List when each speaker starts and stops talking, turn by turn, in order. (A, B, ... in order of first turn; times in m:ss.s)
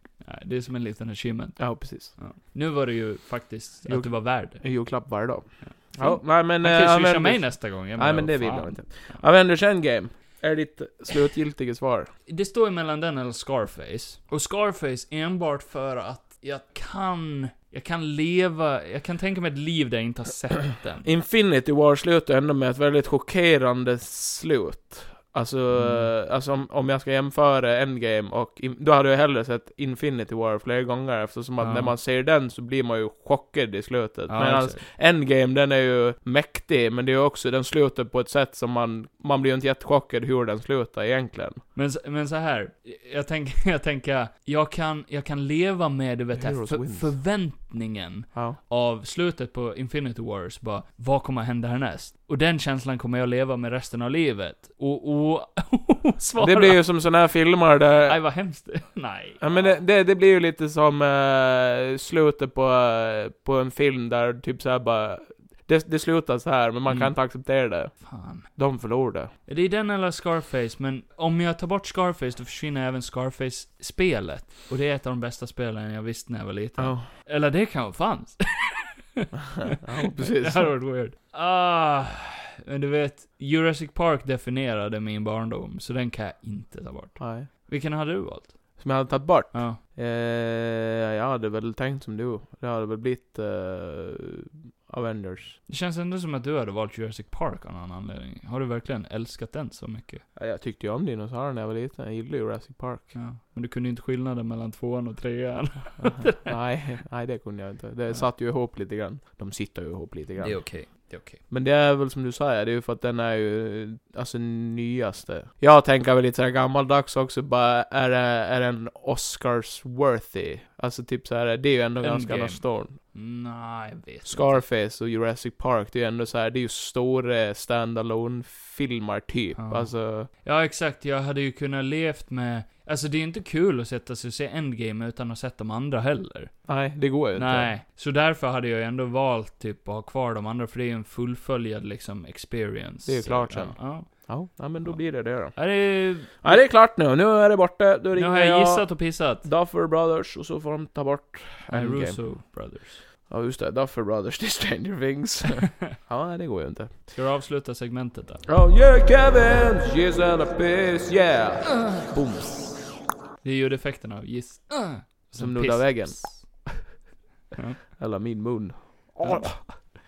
0:00.2-0:04.6 A
0:01.6-0:02.2 B
0:03.8-0:12.1 B
0:05.6-0:09.2 A
0:12.3-0:21.1 A
0:21.0-0:41.6 B
0:25.7-0:26.1 A
0:31.6-0:31.9 A
0:34.3-0:34.8 A
0:41.7-0:56.8 A
0:46.3-0:47.2 B
0:48.3-0:48.6 B
0:56.4-0:58.2 B
0:58.0-0:59.7 A
0:59.4-1:09.3 B
1:06.9-1:07.1 A
1:08.0-1:08.5 A
1:09.4-1:28.8 A
1:16.8-1:17.1 B
1:19.6-1:20.7 B
1:27.2-1:27.5 B
1:28.8-1:35.6 B
1:29.5-1:29.8 A
1:35.7-1:40.2 A
1:40.4-1:43.2 B
1:43.1-1:46.6 A
1:46.0-2:03.0 B
1:50.4-1:51.4 A
2:02.0-2:04.6 A
2:04.2-2:10.3 B
2:09.6-2:16.6 A
2:16.7-2:17.7 B
2:17.3-2:24.3 A
2:23.0-2:25.7 B
2:24.8-2:26.6 A
2:26.3-2:32.2 B
2:28.1-2:29.5 A
2:31.7-2:33.0 A
2:33.3-2:37.0 B
2:37.1-2:38.4 A
2:38.5-2:42.8 B
2:43.4-2:46.6 A
2:45.4-2:46.8 B
2:47.5-2:47.8 A
2:48.0-2:49.8 B
2:49.2-2:49.6 A